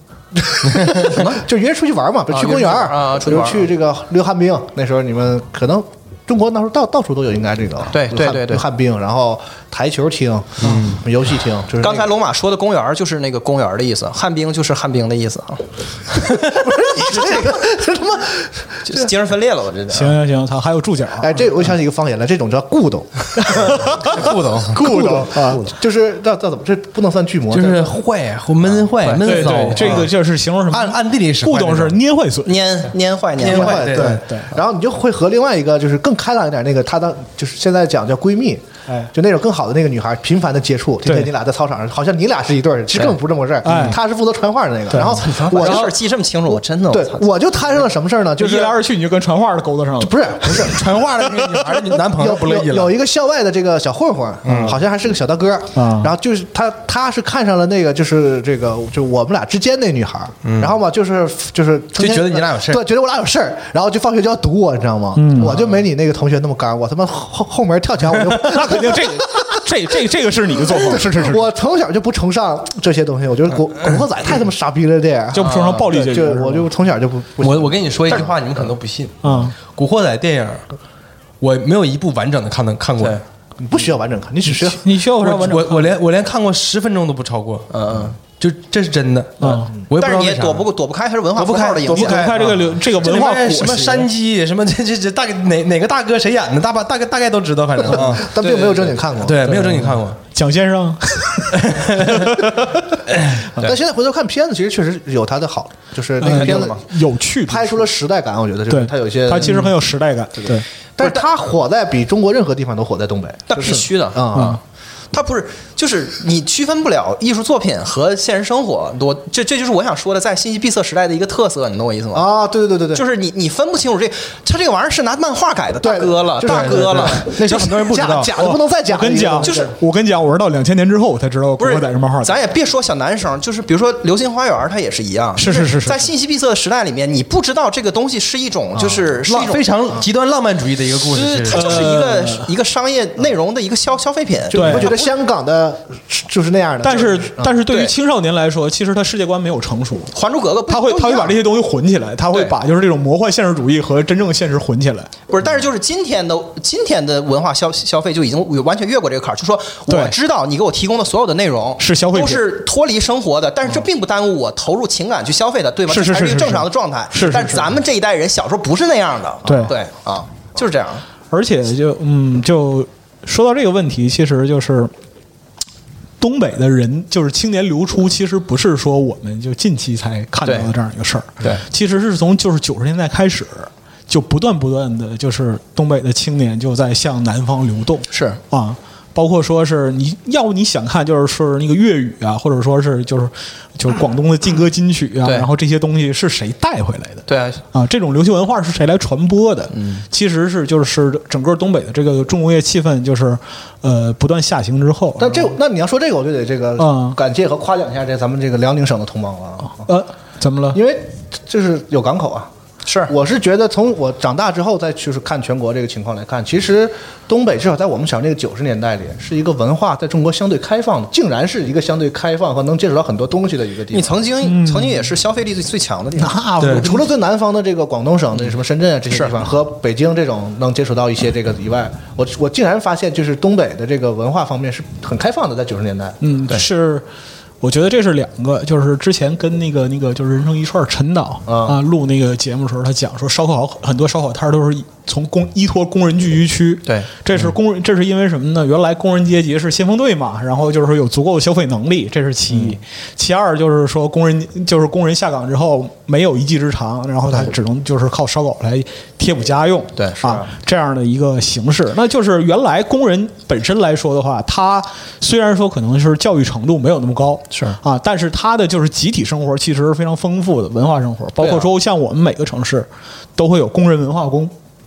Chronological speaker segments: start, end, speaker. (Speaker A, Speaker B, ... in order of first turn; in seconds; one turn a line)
Speaker A: 0.3-12.1
Speaker B: 1.0-1.4
Speaker B: 2.3-3.7
Speaker B: 7.9-8.7
Speaker C: 10.6-11.0
Speaker B: 11.8-17.6
Speaker A: 16.4-19.1
Speaker B: 18.9-20.2
Speaker D: 19.9-21.4
Speaker A: 21.2-27.9
Speaker D: 23.7-24.1
Speaker C: 24.0-24.8
Speaker D: 24.7-25.6
Speaker C: 27.5-30.1
Speaker B: 29.1-29.6
Speaker D: 29.1-32.8
Speaker C: 30.7-32.0
Speaker B: 32.5-34.0
Speaker C: 33.4-34.2
Speaker A: 33.4-46.0
Speaker D: 34.1-34.5
Speaker D: 41.0-41.3
Speaker D: 43.6-44.0
Speaker B: 45.0-47.3
Speaker A: 46.9-48.8
Speaker D: 48.4-50.8
Speaker A: 50.0-51.1
Speaker C: 50.5-52.9
Speaker A: 52.1-69.7
Speaker C: 54.5-54.8
Speaker D: 55.8-56.1
Speaker C: 60.4-60.7
Speaker C: 62.0-62.8
Speaker D: 65.2-65.5
Speaker D: 68.4-71.5
Speaker A: 70.6-78.3
Speaker D: 75.3-76.7
Speaker B: 75.4-75.8
Speaker C: 77.4-80.7
Speaker D: 79.2-79.5
Speaker C: 81.4-83.2
Speaker A: 83.6-85.0
Speaker D: 84.5-86.0
Speaker C: 85.2-90.7
Speaker B: 87.7-88.1
Speaker D: 89.4-89.7
Speaker B: 90.0-92.4
Speaker C: 91.3-98.3
Speaker D: 91.9-94.1
Speaker A: 97.8-99.7
Speaker B: 98.4-99.0
Speaker C: 99.2-100.2
Speaker D: 99.5-102.9
Speaker C: 101.6-102.3
Speaker C: 103.1-103.4
Speaker A: 103.6-106.8
Speaker D: 106.2-107.9
Speaker B: 106.2-106.8
Speaker A: 107.4-109.6
Speaker D: 108.7-110.7
Speaker A: 111.0-114.6
Speaker B: 113.5-114.6
Speaker D: 114.3-114.6
Speaker B: 115.1-122.3
Speaker A: 122.1-123.0
Speaker B: 122.9-127.6
Speaker A: 125.8-129.7
Speaker C: 126.4-128.3
Speaker D: 128.4-132.3
Speaker B: 129.4-129.7
Speaker B: 131.6-139.6
Speaker D: 135.4-136.1
Speaker A: 138.8-139.1
Speaker C: 139.3-141.9
Speaker B: 141.1-145.0
Speaker D: 141.5-142.5
Speaker A: 144.5-147.6
Speaker D: 144.5-144.9
Speaker D: 146.8-150.1
Speaker B: 147.7-147.9
Speaker B: 150.1-151.4
Speaker D: 150.7-155.1
Speaker B: 155.3-171.1
Speaker D: 159.9-160.1
Speaker D: 161.8-162.6
Speaker D: 165.9-167.7
Speaker D: 169.5-169.7
Speaker D: 171.3-174.9
Speaker D: 176.2-205.5
Speaker B: 180.4-180.7
Speaker B: 188.1-188.4
Speaker B: 197.3-197.6
Speaker B: 199.7-200.0
Speaker A: 205.2-209.9
Speaker D: 206.8-207.2
Speaker D: 209.8-210.8
Speaker A: 210.7-212.5
Speaker B: 212.9-213.1
Speaker A: 213.1-224.2
Speaker B: 223.9-226.4
Speaker D: 224.4-225.1
Speaker D: 226.2-227.1
Speaker C: 226.6-226.9
Speaker A: 226.7-236.2
Speaker D: 236.2-237.1
Speaker D: 237.6-274.5
Speaker A: 241.5-241.8
Speaker B: 260.0-260.5
Speaker B: 267.5-267.8